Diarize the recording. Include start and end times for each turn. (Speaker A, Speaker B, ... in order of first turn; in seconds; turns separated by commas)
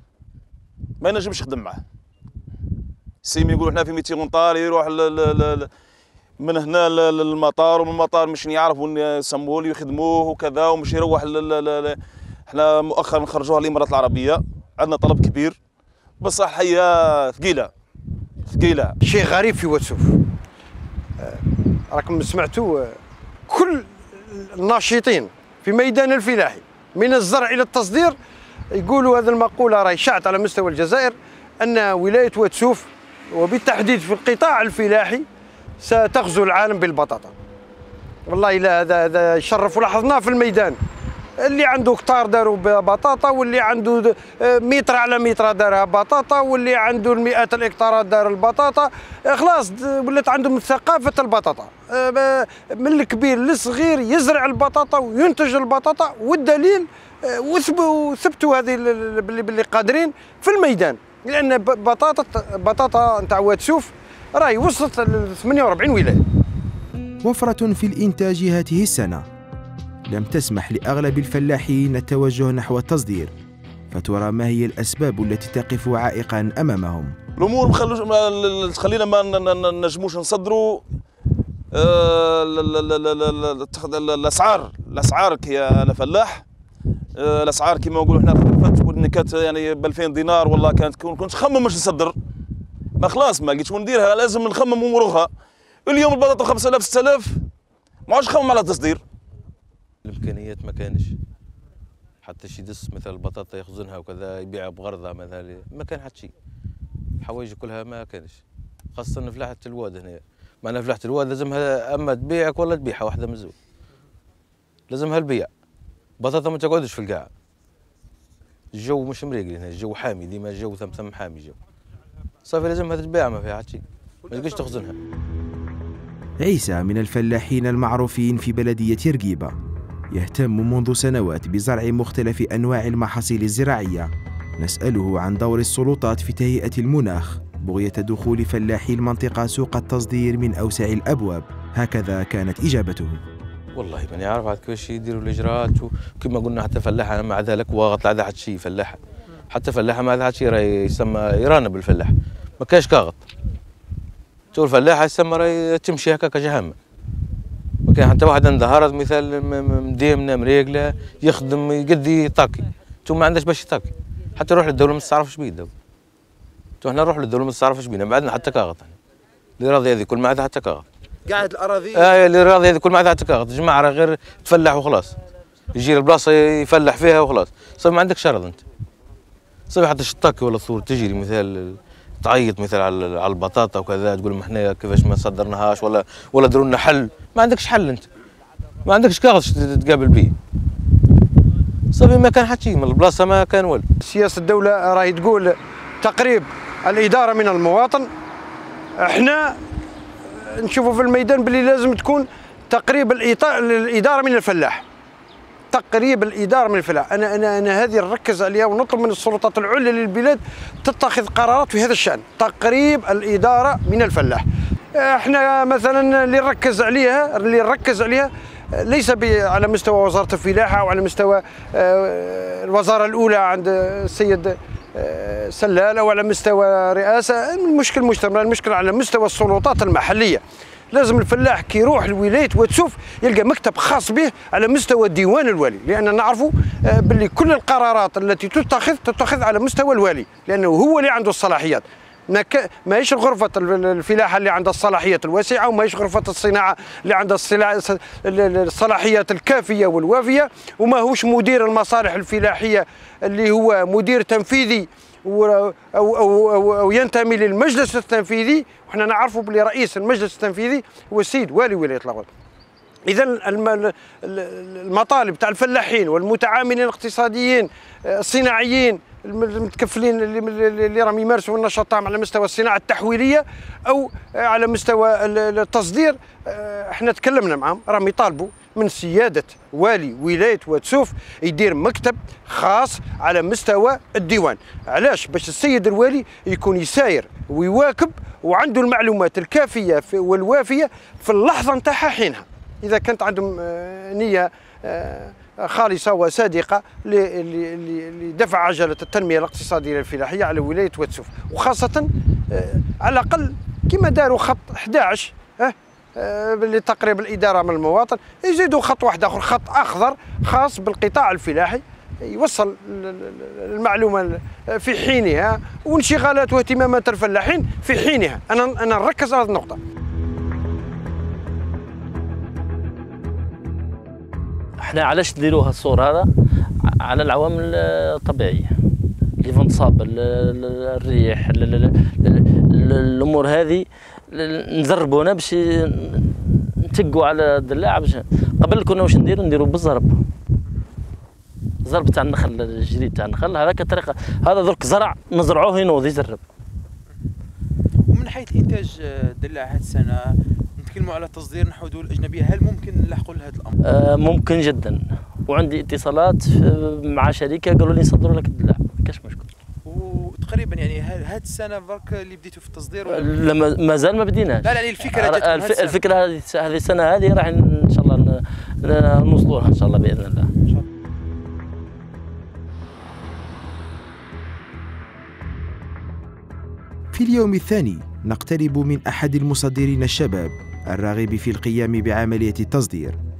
Speaker A: 1.0-1.8, Speaker A: 3.2-5.7, Speaker A: 6.4-15.6, Speaker A: 16.2-17.7, Speaker A: 18.4-18.9, Speaker B: 19.0-20.2, Speaker B: 21.2-23.0, Speaker B: 23.5-28.1, Speaker B: 28.7-35.2, Speaker B: 35.8-37.3, Speaker B: 38.3-40.8, Speaker B: 41.4-66.2, Speaker C: 67.2-69.2, Speaker C: 70.1-73.3, Speaker C: 73.9-77.2, Speaker A: 77.4-80.8, Speaker A: 81.7-86.4, Speaker A: 87.2-92.1, Speaker A: 93.0-95.3, Speaker A: 95.8-97.4, Speaker A: 98.1-99.0, Speaker D: 100.0-101.2, Speaker D: 102.2-106.3, Speaker D: 107.2-108.4, Speaker D: 108.9-113.5, Speaker D: 114.9-115.5, Speaker D: 116.2-117.3, Speaker D: 118.7-121.5, Speaker D: 122.5-124.9, Speaker E: 124.4-124.6, Speaker C: 126.4-129.5, Speaker C: 130.1-143.2, Speaker D: 143.7-149.0, Speaker D: 149.5-153.2, Speaker D: 154.5-156.8, Speaker D: 157.8-165.7, Speaker D: 166.8-168.9, Speaker D: 169.6-170.8, Speaker E: 171.2-172.1, Speaker D: 171.9-175.1, Speaker D: 175.7-178.6, Speaker D: 179.7-188.1, Speaker D: 188.8-190.3, Speaker D: 191.9-193.8, Speaker B: 194.0-198.1, Speaker B: 199.0-199.6, Speaker B: 200.3-204.8, Speaker B: 205.7-214.4, Speaker B: 214.9-262.3, Speaker B: 263.1-319.8, Speaker F: 324.8-326.3, Speaker F: 326.8-328.7, Speaker F: 329.4-340.2, Speaker F: 341.8-346.4, Speaker E: 348.1-353.8, Speaker F: 353.8-359.5, Speaker E: 359.8-363.4, Speaker F: 363.1-370.5, Speaker E: 364.6-366.0, Speaker C: 377.1-383.2